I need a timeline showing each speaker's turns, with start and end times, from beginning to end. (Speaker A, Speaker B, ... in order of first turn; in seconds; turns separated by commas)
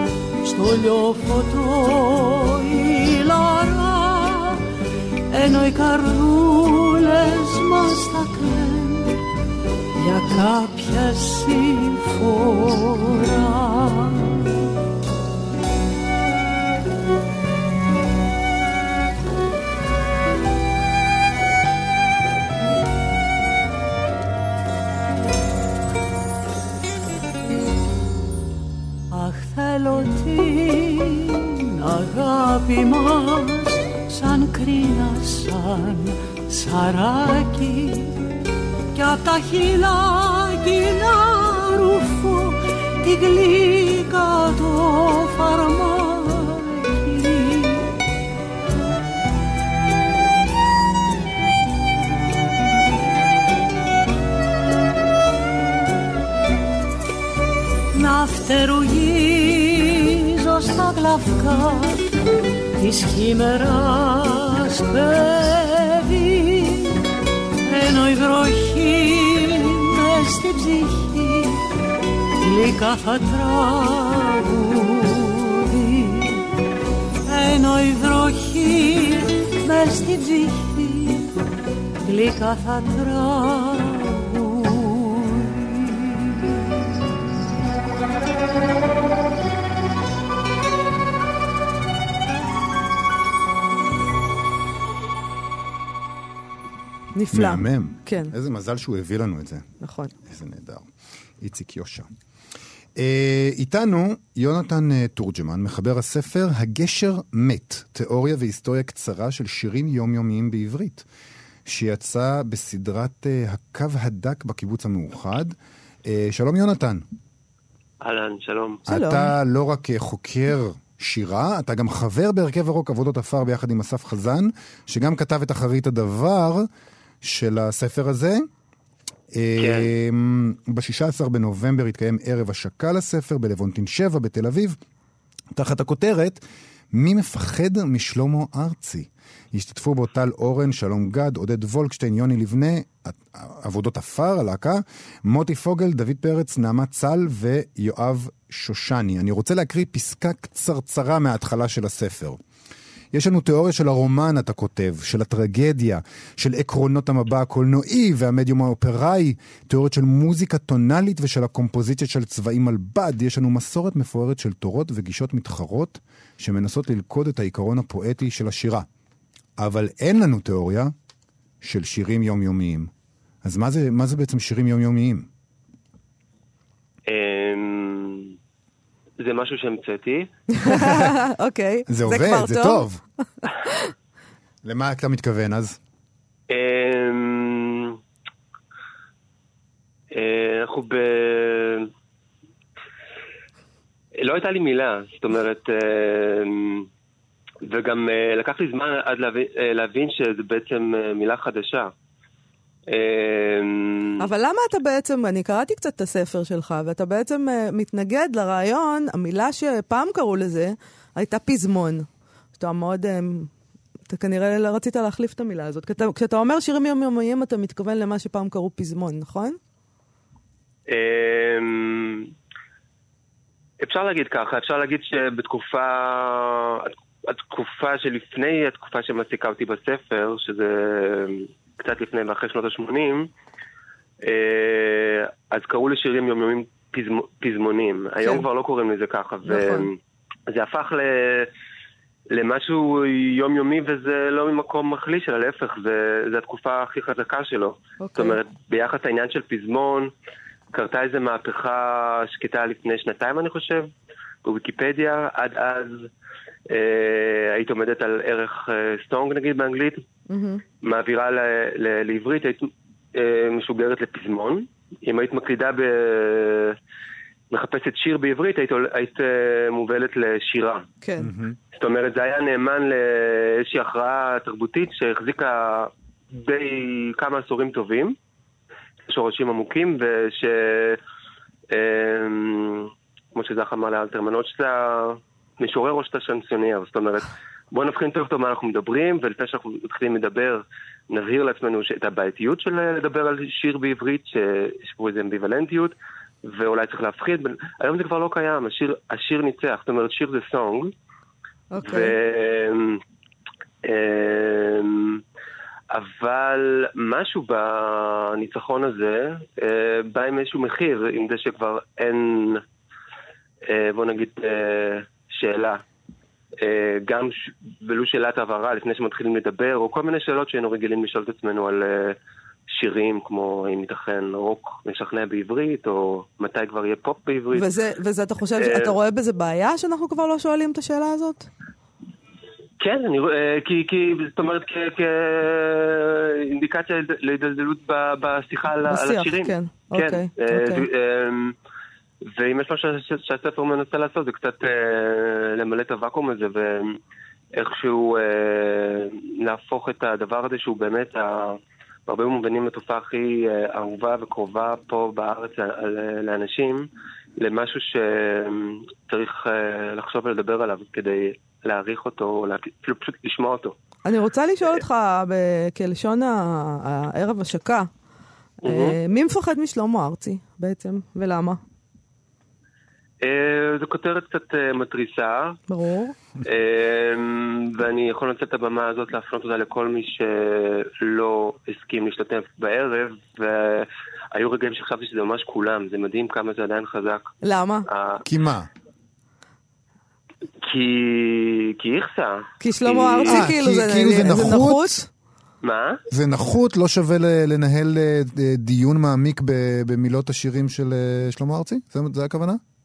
Speaker A: 0.4-4.6, Speaker A: 5.3-9.2, Speaker A: 10.0-14.4, Speaker A: 29.1-38.2, Speaker A: 38.9-47.9, Speaker A: 57.9-62.1, Speaker A: 62.8-67.0, Speaker A: 67.7-71.6, Speaker A: 72.4-76.4, Speaker A: 77.3-81.3, Speaker A: 82.0-86.3, Speaker B: 97.2-98.3, Speaker C: 97.3-99.7, Speaker B: 99.8-100.1, Speaker C: 100.2-102.1, Speaker C: 103.0-111.0, Speaker C: 111.7-117.0, Speaker D: 118.0-118.8, Speaker C: 118.9-126.7, Speaker B: 118.9-119.3, Speaker C: 127.2-128.5, Speaker C: 129.3-134.8, Speaker D: 129.6-129.9, Speaker C: 135.5-152.4, Speaker C: 153.1-168.9, Speaker C: 169.6-170.9, Speaker C: 171.6-172.9, Speaker C: 173.4-175.3, Speaker D: 177.1-178.3, Speaker D: 179.2-180.3, Speaker B: 180.5-182.8, Speaker C: 180.7-181.1, Speaker C: 181.9-183.0, Speaker C: 184.6-185.8, Speaker D: 186.5-188.0, Speaker D: 190.1-191.9, Speaker D: 194.2-196.9, Speaker D: 197.6-201.9, Speaker D: 202.9-204.3, Speaker B: 204.2-212.1, Speaker B: 212.6-213.5, Speaker B: 214.1-219.6, Speaker D: 220.9-222.3, Speaker D: 223.8-233.3, Speaker D: 234.2-239.9, Speaker B: 239.4-239.9, Speaker D: 240.5-241.5, Speaker D: 242.3-250.1, Speaker B: 248.0-248.4, Speaker D: 250.7-253.9, Speaker D: 254.4-256.1, Speaker D: 256.7-260.0, Speaker B: 260.3-260.6, Speaker D: 260.8-266.8, Speaker D: 267.5-270.9, Speaker B: 271.0-271.3, Speaker C: 271.2-271.6, Speaker D: 271.8-278.2, Speaker D: 279.1-281.0, Speaker D: 281.7-300.9, Speaker B: 301.7-302.1, Speaker D: 301.8-303.0, Speaker D: 303.9-305.2, Speaker D: 305.9-312.6, Speaker D: 313.7-315.8, Speaker D: 316.6-322.2, Speaker D: 322.7-327.7, Speaker B: 327.5-331.5, Speaker D: 328.6-328.9, Speaker D: 332.8-341.6, Speaker B: 338.9-340.9, Speaker D: 342.3-347.0, Speaker D: 347.6-356.9, Speaker D: 357.4-363.8, Speaker B: 364.1-367.9, Speaker D: 368.6-369.0, Speaker B: 368.6-371.6, Speaker D: 373.2-375.6, Speaker B: 375.7-376.1, Speaker D: 376.4-387.3, Speaker B: 387.4-387.9, Speaker D: 387.9-388.2, Speaker C: 388.2-388.7, Speaker D: 390.6-393.5, Speaker B: 392.6-395.1, Speaker C: 393.3-395.0, Speaker D: 395.6-396.0, Speaker C: 396.1-402.6